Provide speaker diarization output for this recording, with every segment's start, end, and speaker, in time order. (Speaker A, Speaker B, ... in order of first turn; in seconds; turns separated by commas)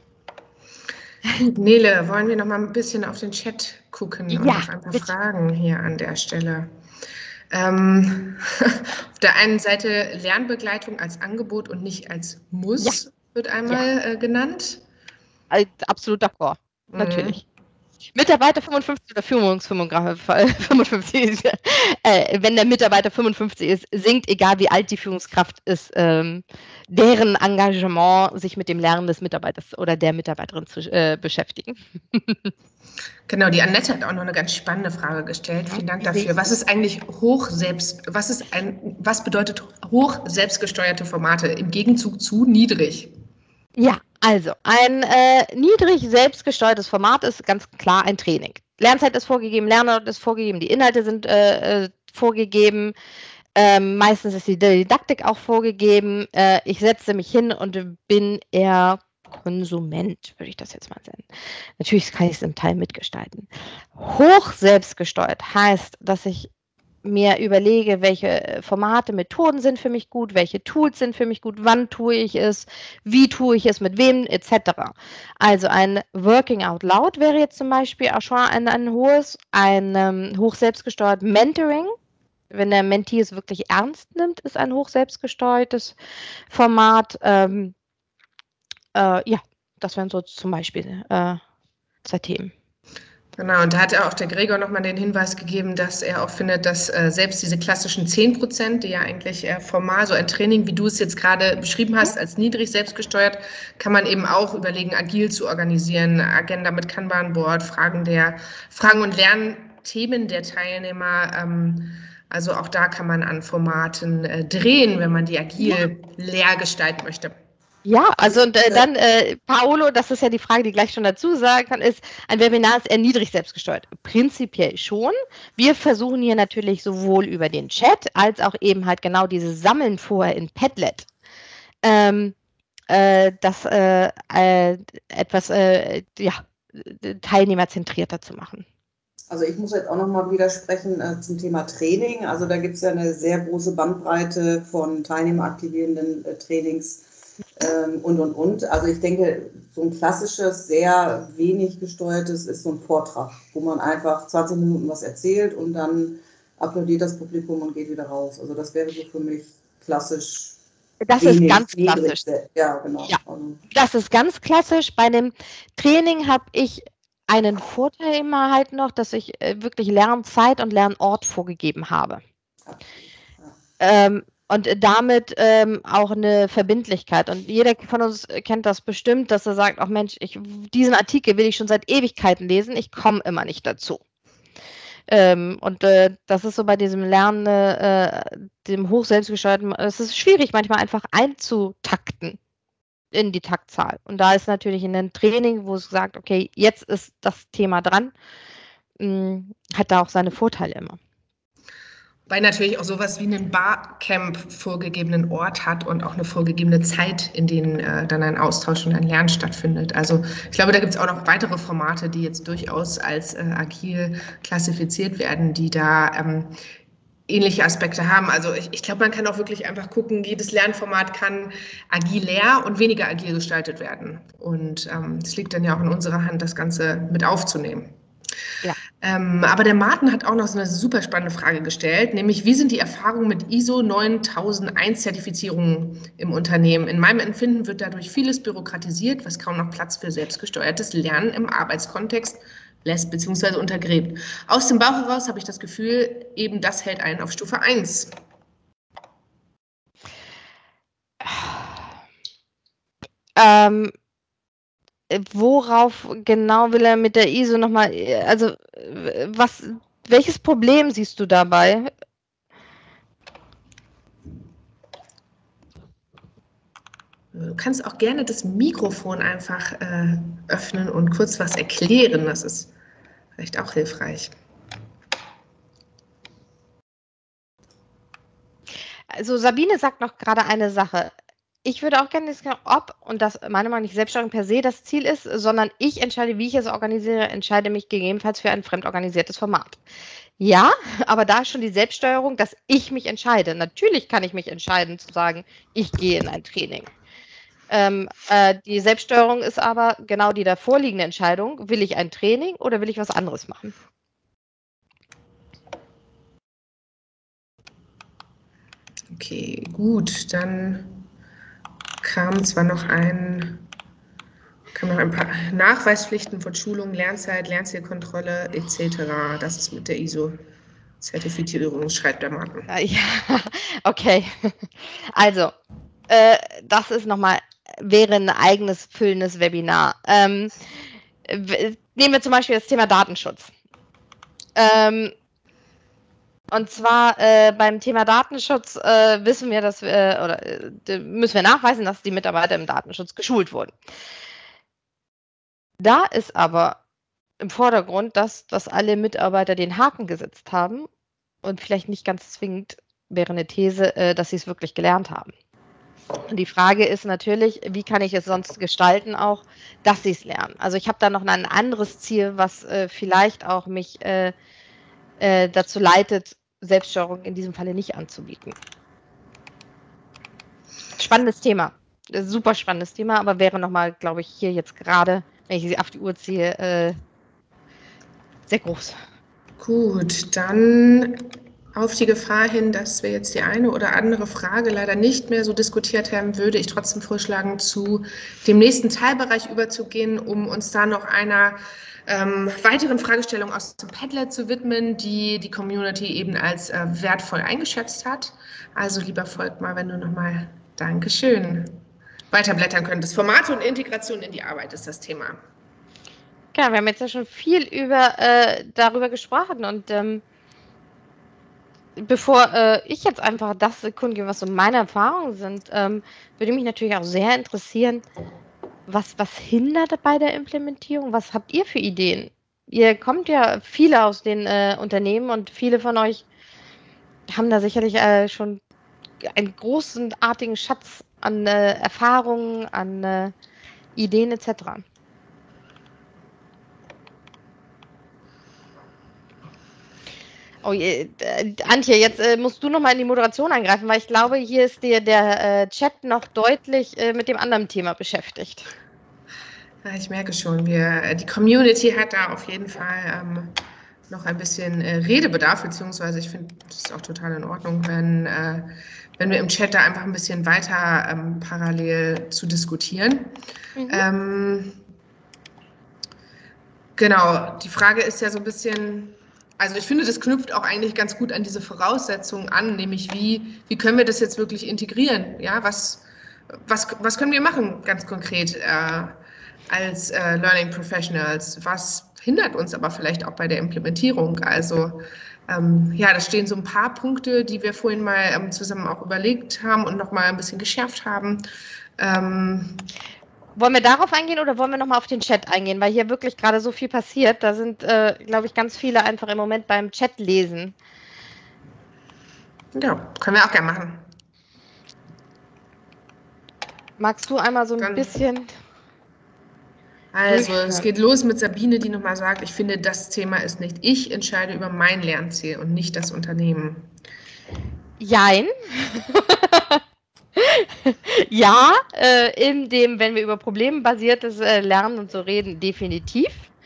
Speaker A: 1.4-6.7, Speaker B: 4.3-5.1, Speaker A: 7.5-14.8, Speaker B: 15.5-17.4, Speaker A: 16.9-17.4, Speaker B: 18.1-32.5, Speaker A: 33.3-43.1, Speaker B: 35.7-36.3, Speaker B: 43.8-53.0, Speaker B: 53.5-61.3, Speaker B: 61.8-66.5, Speaker B: 67.0-82.0, Speaker B: 82.5-86.0, Speaker B: 86.5-87.7, Speaker B: 88.9-91.4, Speaker B: 92.0-92.5, Speaker A: 93.4-117.4, Speaker B: 117.8-131.1, Speaker B: 131.8-132.3, Speaker B: 132.9-138.7, Speaker C: 139.3-147.1, Speaker C: 147.6-160.6, Speaker B: 161.0-162.2, Speaker C: 161.2-163.6, Speaker B: 163.7-172.2, Speaker B: 173.8-184.0, Speaker B: 185.1-192.4, Speaker B: 193.1-198.1, Speaker B: 199.0-201.0, Speaker A: 202.3-216.6, Speaker A: 217.3-227.9, Speaker A: 229.0-248.1, Speaker B: 251.2-251.8, Speaker B: 253.4-253.9, Speaker B: 255.1-261.9, Speaker A: 267.3-272.7, Speaker A: 273.4-274.3, Speaker B: 279.1-281.1, Speaker B: 281.6-289.8, Speaker B: 290.4-296.9, Speaker B: 297.7-303.7, Speaker A: 309.1-311.0, Speaker A: 312.0-313.6, Speaker A: 314.7-320.4, Speaker A: 321.0-322.7, Speaker B: 322.7-325.5, Speaker B: 326.1-330.5, Speaker B: 331.3-333.5, Speaker B: 334.6-335.1, Speaker B: 336.5-343.7, Speaker B: 345.8-346.8, Speaker B: 347.4-350.9, Speaker B: 351.4-355.3, Speaker B: 356.3-364.3, Speaker B: 365.2-368.6, Speaker B: 371.0-377.0, Speaker B: 378.5-379.0, Speaker A: 379.6-401.8, Speaker A: 402.3-405.4, Speaker B: 406.5-410.2, Speaker B: 412.0-418.0, Speaker B: 418.9-426.2, Speaker B: 427.3-428.6, Speaker B: 429.2-433.3, Speaker B: 433.9-434.8, Speaker B: 440.6-448.7, Speaker A: 449.8-453.5, Speaker A: 454.1-463.3, Speaker B: 463.8-464.1, Speaker A: 463.9-464.8, Speaker A: 467.0-476.0, Speaker A: 476.7-479.2, Speaker A: 479.7-491.4, Speaker A: 492.0-492.9, Speaker B: 493.6-500.8, Speaker A: 502.7-504.1, Speaker B: 507.0-508.5, Speaker A: 507.8-508.1, Speaker A: 510.1-516.9, Speaker B: 510.3-510.9, Speaker B: 518.0-519.8, Speaker B: 520.4-526.5